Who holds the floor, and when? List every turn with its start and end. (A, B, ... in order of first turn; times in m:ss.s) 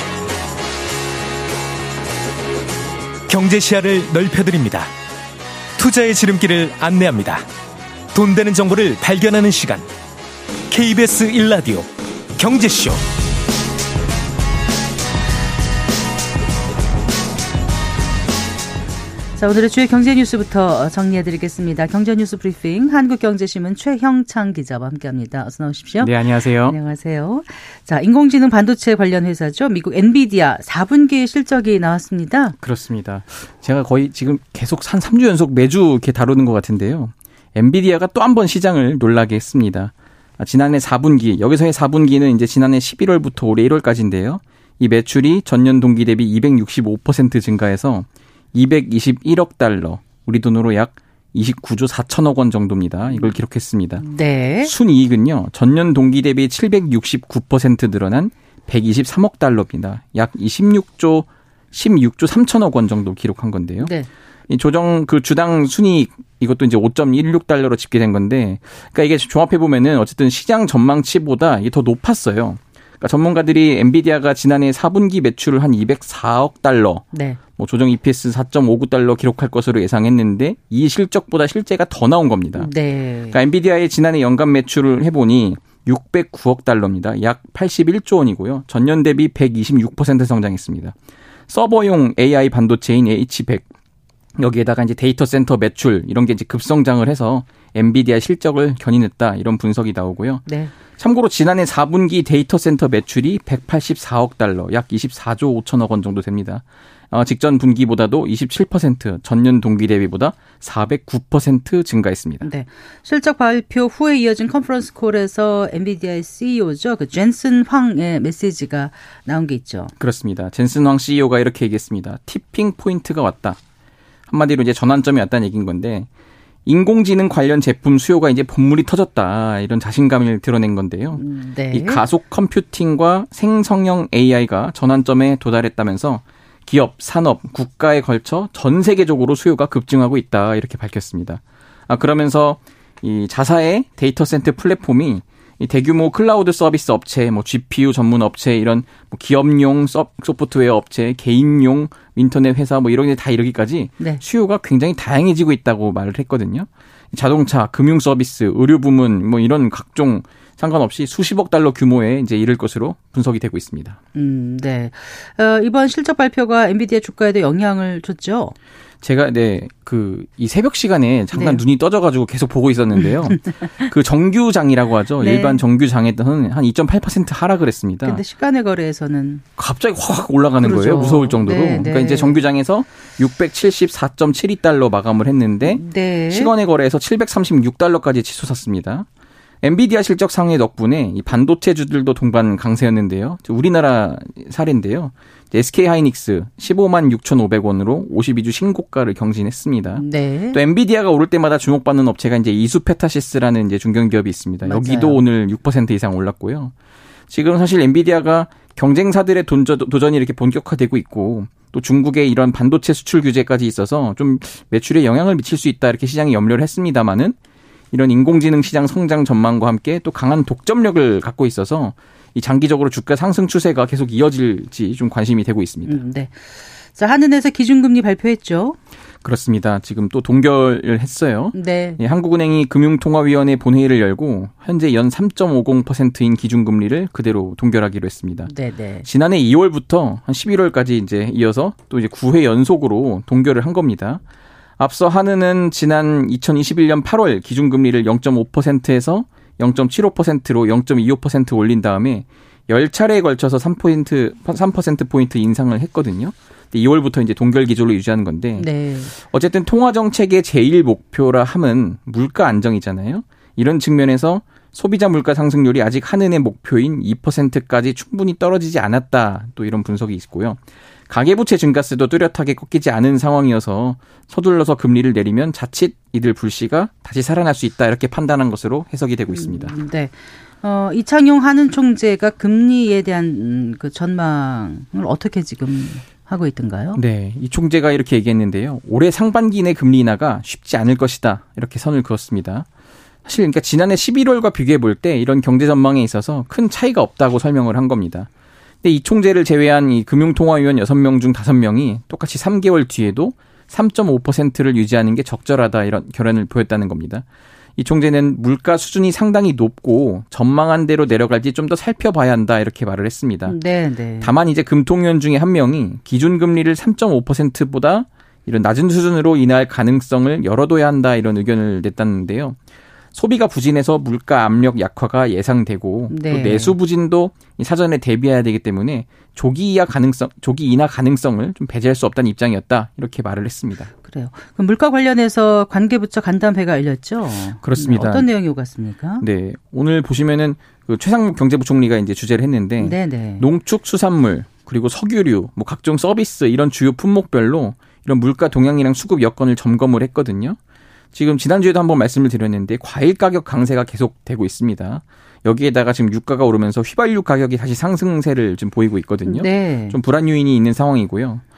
0:03.3-0:04.9 A
0:05.8-0:07.4 A
0:08.1-0:09.9 A
0:10.7-0:13.0 A
0:19.4-0:32.6 B
0:26.0-0:26.8 C
0:32.6-0:54.1 C
0:54.0-0:54.7 B
0:54.6-1:03.9 C
1:03.8-1:04.1 B
1:04.5-1:22.7 C
1:17.1-1:17.4 B
1:22.6-1:23.4 B
1:23.3-1:31.0 C
1:31.5-1:33.7 C
1:34.4-1:52.5 C
1:40.5-1:40.7 B
1:52.4-1:59.9 B
2:00.0-2:03.6 C
2:04.3-2:06.1 C
2:06.7-2:44.0 C
2:11.2-2:12.0 B
2:44.1-2:48.5 B
2:49.0-2:58.2 C
2:51.3-2:51.6 B
2:53.0-2:53.9 B
2:55.2-2:55.6 B
2:58.0-2:59.4 B
2:59.6-3:09.1 C
3:00.6-3:02.4 B
3:05.6-3:06.5 B
3:09.6-3:26.7 C
3:20.0-3:20.6 B
3:24.6-3:25.2 B
3:27.3-3:37.4 C
3:37.9-3:46.0 C
3:45.8-3:48.8 B
3:49.2-3:58.5 C
3:51.5-3:52.0 B
3:58.5-3:59.1 B
3:59.0-4:04.2 C
4:04.8-4:39.8 C
4:18.6-4:19.1 B
4:39.3-4:47.0 B
4:47.0-4:52.7 C
4:53.2-4:58.3 C
4:58.8-5:07.2 C
5:07.8-5:13.6 C
5:13.5-5:14.3 B
5:14.2-5:22.6 C
5:23.1-5:33.9 C
5:26.1-5:26.8 B
5:34.0-5:39.2 B
5:37.6-5:38.3 C
5:39.2-5:50.6 C
5:42.8-5:43.5 B
5:51.1-6:01.4 C
5:59.3-6:00.0 B